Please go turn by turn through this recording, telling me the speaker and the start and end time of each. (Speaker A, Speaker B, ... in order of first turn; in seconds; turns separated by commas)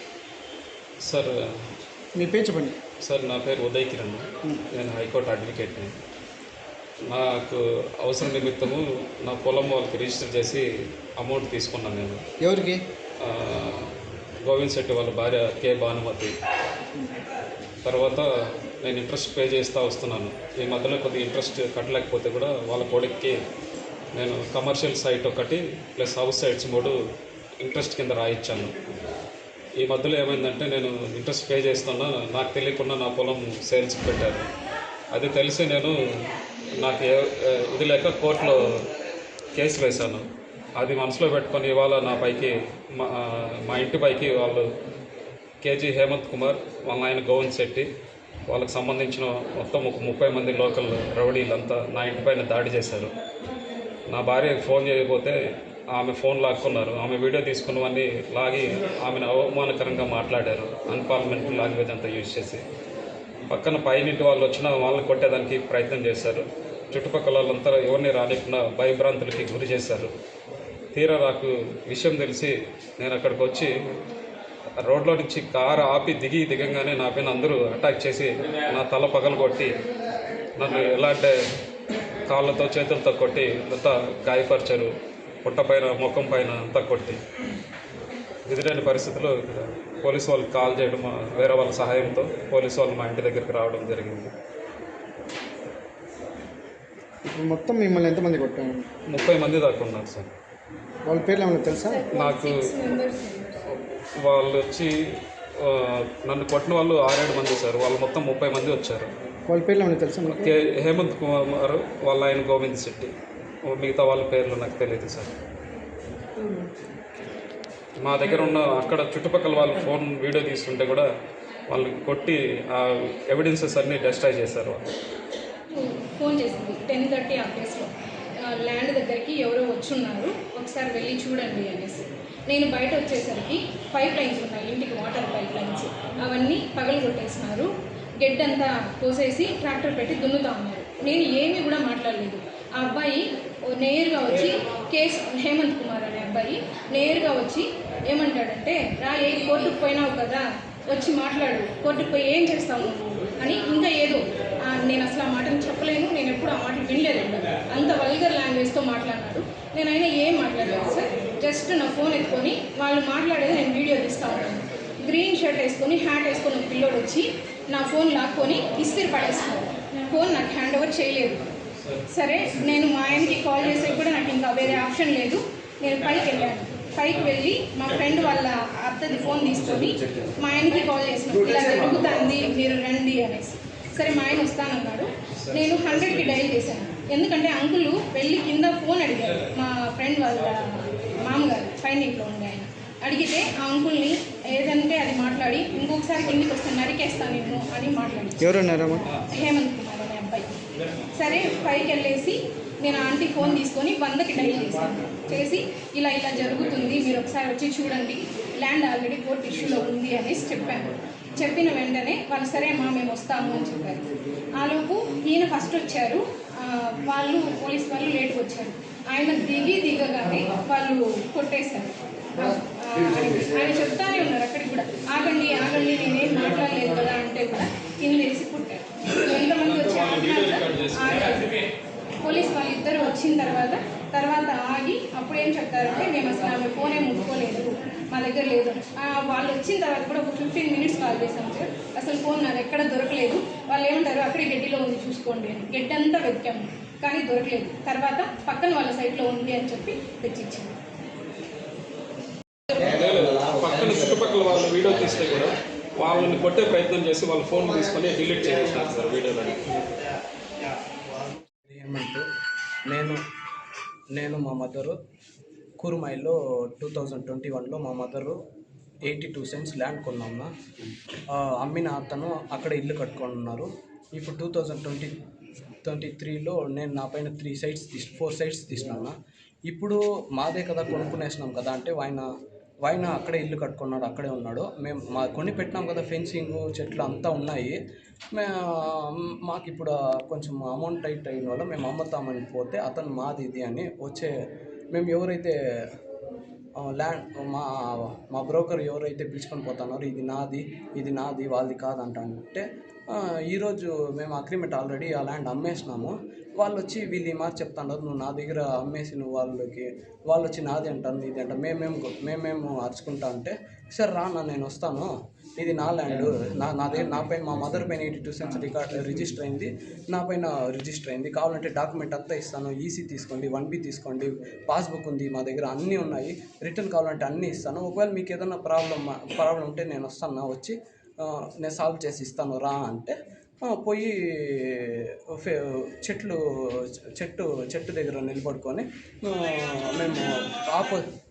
Speaker A: 1.0-1.4, Speaker B: 2.2-2.8, Speaker A: 3.0-6.0, Speaker A: 7.1-10.7, Speaker A: 11.2-12.2, Speaker B: 12.4-12.8, Speaker A: 13.2-16.3, Speaker A: 17.8-18.3, Speaker A: 18.8-23.4, Speaker A: 24.1-27.0, Speaker A: 27.6-28.7, Speaker A: 29.8-34.5, Speaker A: 35.1-36.0, Speaker A: 36.8-38.7, Speaker A: 39.5-40.2, Speaker A: 40.8-44.7, Speaker A: 45.6-47.9, Speaker A: 48.5-53.1, Speaker A: 54.1-55.4, Speaker A: 55.9-62.6, Speaker A: 63.5-70.1, Speaker A: 70.9-73.7, Speaker A: 74.8-79.7, Speaker A: 80.6-81.3, Speaker A: 82.3-84.9, Speaker A: 85.4-87.2, Speaker A: 88.5-94.3, Speaker B: 97.3-98.9, Speaker A: 99.1-100.3, Speaker B: 101.1-102.0, Speaker C: 101.7-103.7, Speaker A: 102.1-102.7, Speaker A: 103.7-104.9, Speaker A: 105.6-109.1, Speaker B: 109.5-110.5, Speaker A: 110.3-113.1, Speaker A: 113.7-115.3, Speaker A: 118.0-121.1, Speaker A: 121.7-124.9, Speaker C: 125.7-171.5, Speaker C: 172.1-200.6, Speaker A: 185.4-186.1, Speaker B: 198.4-199.2, Speaker C: 201.1-231.6, Speaker A: 229.2-231.4, Speaker C: 232.2-250.7, Speaker A: 252.7-259.9, Speaker D: 261.6-262.2, Speaker D: 262.9-263.2, Speaker D: 264.1-265.0, Speaker D: 265.8-268.4, Speaker D: 269.1-270.5, Speaker D: 271.3-275.2, Speaker D: 275.8-279.1, Speaker D: 279.7-282.3, Speaker D: 282.8-287.8, Speaker D: 288.3-294.3, Speaker D: 294.9-295.6, Speaker D: 296.8-341.1